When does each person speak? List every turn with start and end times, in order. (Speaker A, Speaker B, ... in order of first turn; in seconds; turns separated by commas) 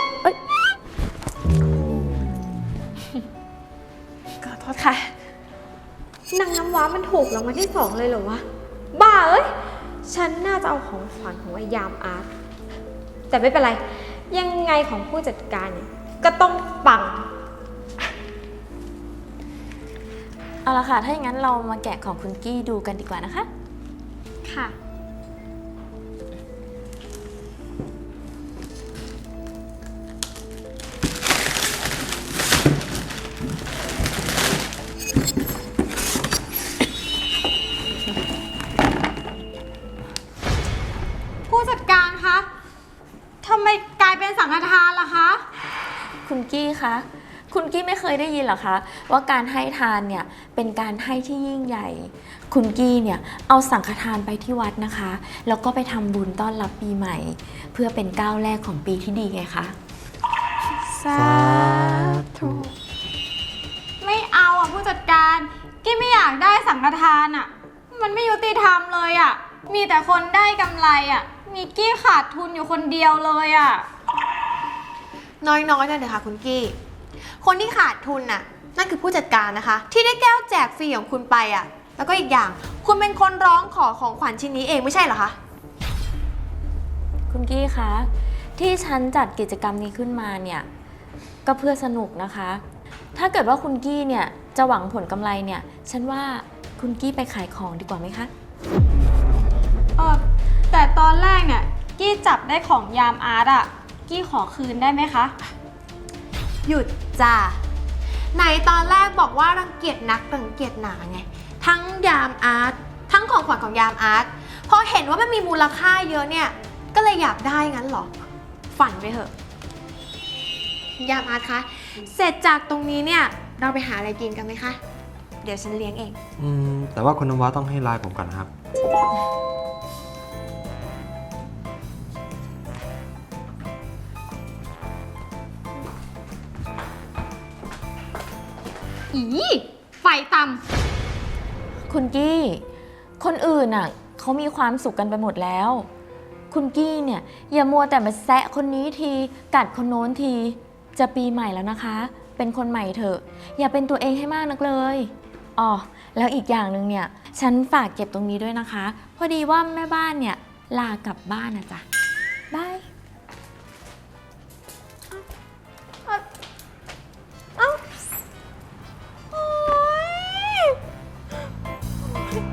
Speaker A: 4.4-5.1, Speaker B: 6.3-9.5, Speaker B: 10.0-12.3, Speaker B: 13.3-17.3, Speaker C: 20.6-23.5, Speaker B: 24.4-24.8, Speaker B: 41.5-42.5, Speaker B: 43.4-45.4, Speaker C: 46.2-59.8, Speaker A: 60.9-62.7, Speaker D: 61.1-62.7, Speaker B: 64.0-73.9, Speaker A: 75.4-76.8, Speaker A: 77.4-85.4, Speaker C: 87.3-90.7, Speaker C: 91.5-92.6, Speaker C: 93.1-98.3, Speaker B: 100.0-105.3, Speaker A: 106.7-107.6, Speaker A: 108.3-118.1, Speaker A: 118.8-119.3, Speaker A: 121.0-124.8, Speaker A: 125.4-126.2, Speaker D: 126.4-128.5, Speaker B: 139.1-140.6, Speaker C: 141.9-142.6, Speaker C: 143.2-145.9, Speaker C: 146.5-161.9, Speaker B: 162.5-162.8, Speaker B: 167.6-168.0, Speaker B: 169.3-170.8